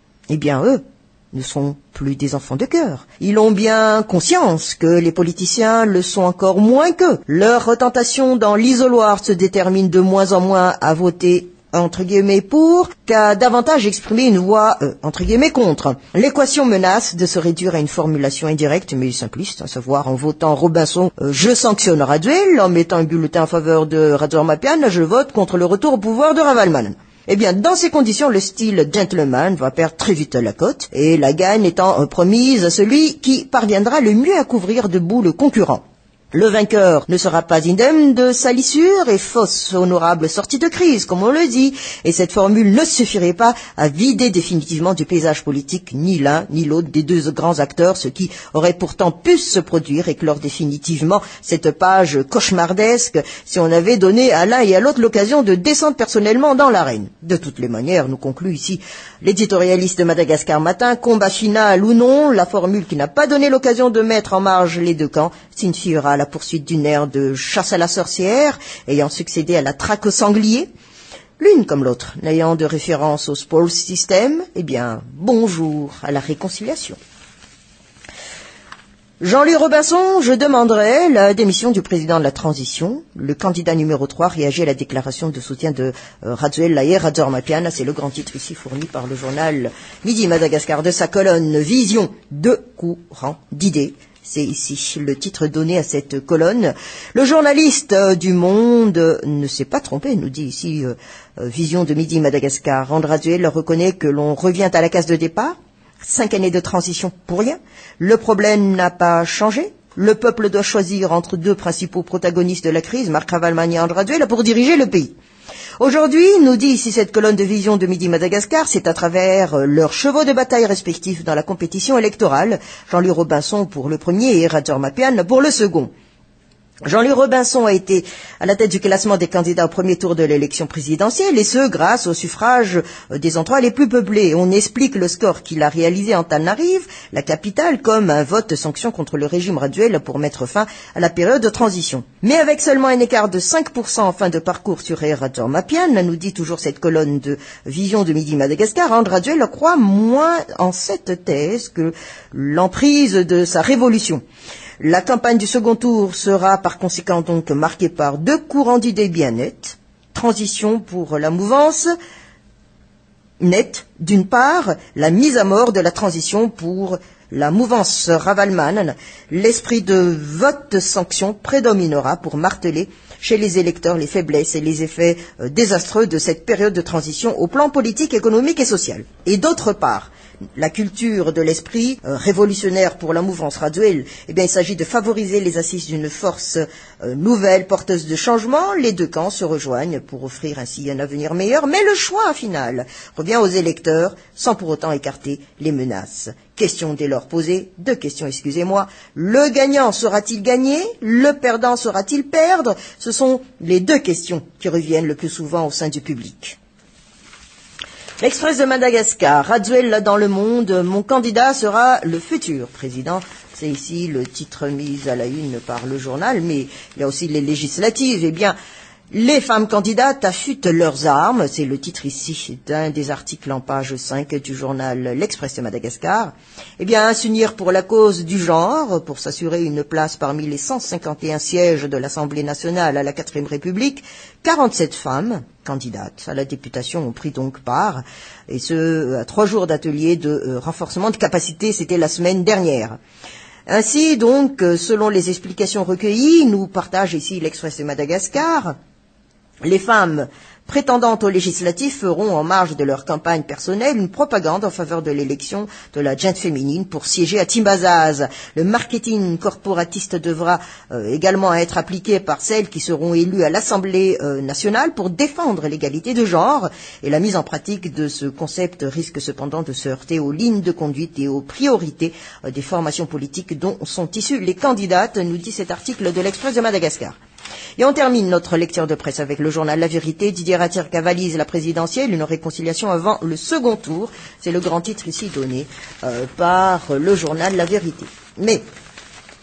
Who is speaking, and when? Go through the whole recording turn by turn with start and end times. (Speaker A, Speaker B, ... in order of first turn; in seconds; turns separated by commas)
Speaker A: 0.3-0.8, Speaker A: 1.3-70.7, Speaker A: 71.4-77.0, Speaker A: 79.2-115.1, Speaker A: 115.8-125.9, Speaker A: 126.9-154.2, Speaker A: 154.8-161.9, Speaker A: 163.4-206.6, Speaker A: 208.2-218.5, Speaker A: 219.1-243.0, Speaker A: 243.7-248.8, Speaker A: 249.7-277.2, Speaker A: 277.8-288.6